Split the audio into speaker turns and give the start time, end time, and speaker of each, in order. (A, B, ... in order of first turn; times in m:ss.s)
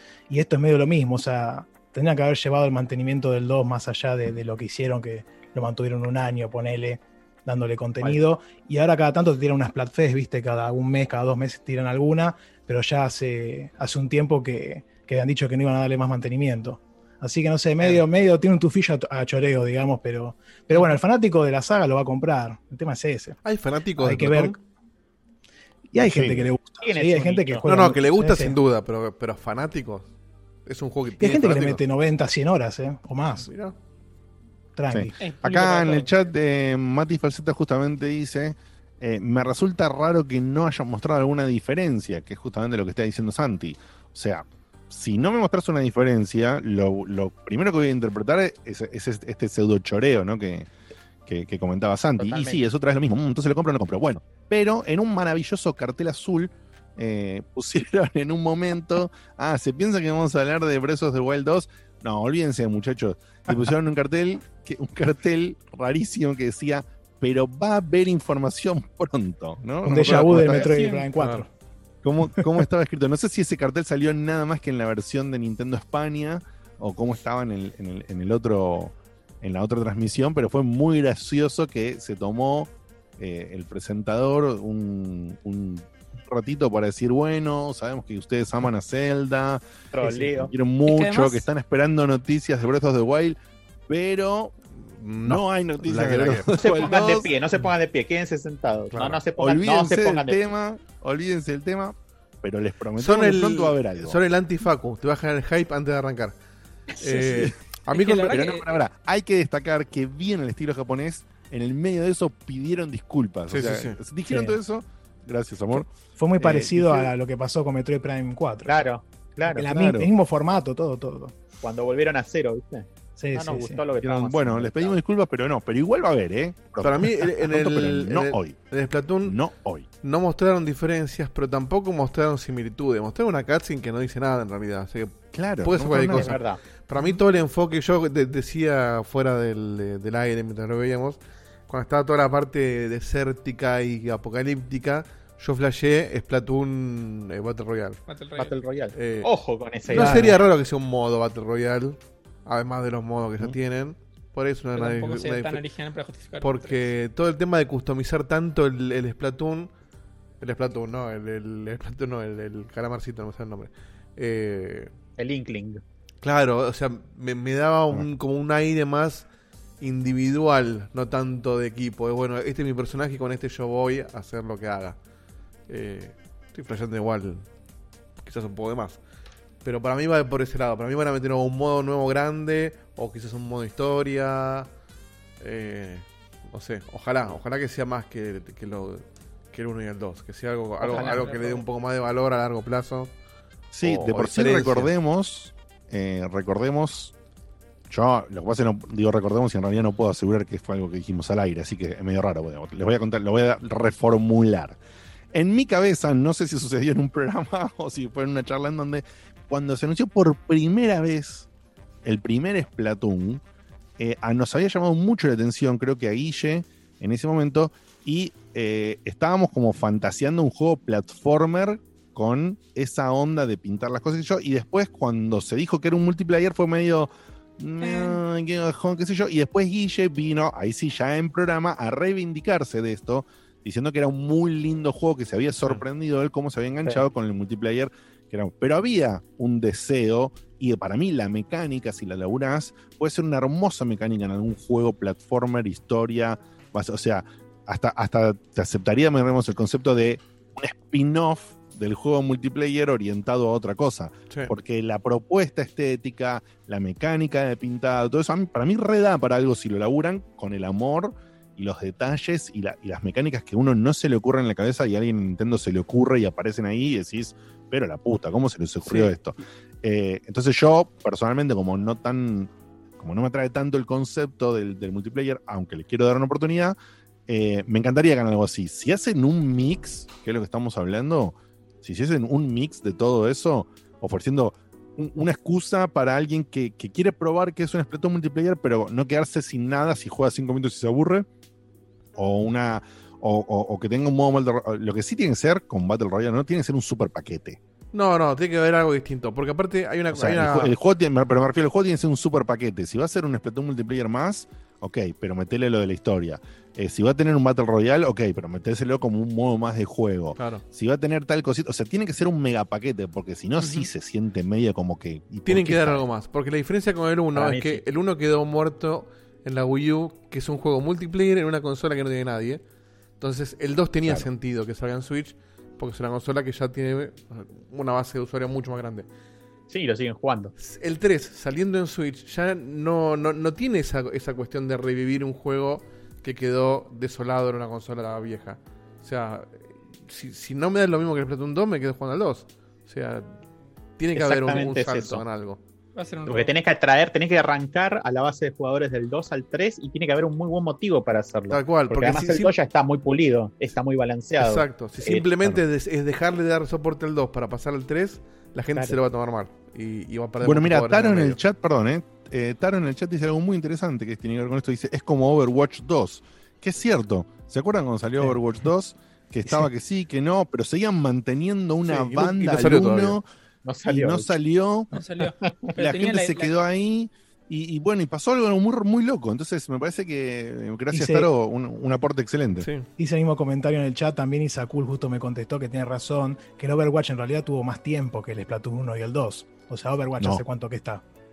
0:00.3-0:23.4 A
0:23.4-0:24.6 B
0:24.0-0:24.6 A
0:25.9-0:28.6 A
0:26.0-0:26.5 C
0:26.8-0:27.6 D
0:27.6-0:30.1 B
0:30.6-0:31.8 B
0:31.2-0:33.5 A
0:33.4-0:33.7 B
0:34.8-0:35.2 A
0:34.9-0:50.7 C
0:35.2-0:36.1 E
0:51.2-1:10.8 C
0:52.2-0:52.6 D
1:09.8-1:11.5 A
1:10.4-1:11.1 E
1:11.1-1:11.4 B
1:12.0-1:34.5 C
1:29.9-1:30.5 D
1:30.8-1:31.5 E
1:35.0-1:37.0 B
1:35.2-1:37.3 C
1:36.6-1:40.4 D
1:38.9-1:39.2 B
1:39.4-1:44.2 C
1:43.0-1:46.4 B
1:47.0-1:48.3 B
1:47.0-1:47.5 D
1:47.9-1:48.7 E
1:47.9-1:55.9 C
1:53.5-1:54.0 B
1:54.3-1:54.6 A
1:56.2-1:58.8 A
1:56.4-1:57.1 C
1:58.7-1:59.6 D
1:59.5-2:01.3 A
1:59.7-2:00.1 C
2:01.6-2:05.0 D
2:03.2-2:03.8 A
2:04.0-2:08.6 C
2:06.8-2:09.4 B
2:09.2-2:09.8 C
2:10.0-2:28.0 B
2:15.3-2:16.3 C
2:16.1-2:16.6 D
2:28.1-2:28.6 E
2:28.4-2:30.4 D
2:29.0-2:29.3 B
2:29.9-2:35.6 B
2:29.9-2:30.3 A
2:34.7-2:36.9 E
2:36.4-2:39.7 B
2:40.4-2:44.9 B
2:45.2-2:45.8 D
2:46.2-2:49.3 B
2:49.8-2:55.0 B
2:55.7-2:57.5 B
2:58.2-2:59.0 B
2:59.6-3:04.7 B
3:05.4-3:13.1 B
3:10.8-3:11.5 E
3:10.8-3:11.6 D
3:13.7-3:17.1 C
3:13.8-3:14.9 B
3:17.9-3:24.8 C
3:25.3-3:31.5 C
3:32.0-3:33.4 C
3:34.0-4:36.8 C
3:47.8-3:48.2 E
4:28.8-4:29.1 B
4:37.3-4:51.3 C
4:52.2-4:57.6 C
4:57.9-5:00.7 B
5:00.1-5:16.0 C
5:10.4-5:10.6 B
5:15.5-5:22.6 B
5:17.3-5:17.8 D
5:23.2-5:29.1 B
5:29.7-5:30.5 D
5:30.6-5:43.3 B
5:44.0-5:45.6 B
5:44.1-5:45.2 D
5:45.9-5:46.5 E
5:46.2-5:55.2 D
5:51.5-5:52.5 B
5:54.4-6:01.4 B
6:00.4-6:13.2 C
6:11.8-6:13.2 B
6:13.6-6:14.4 D
6:13.8-6:14.9 C
6:14.9-6:16.6 E
6:15.2-6:15.7 D
6:15.8-6:22.7 C
6:20.9-6:21.3 A
6:22.6-6:22.9 B
6:23.0-6:31.0 A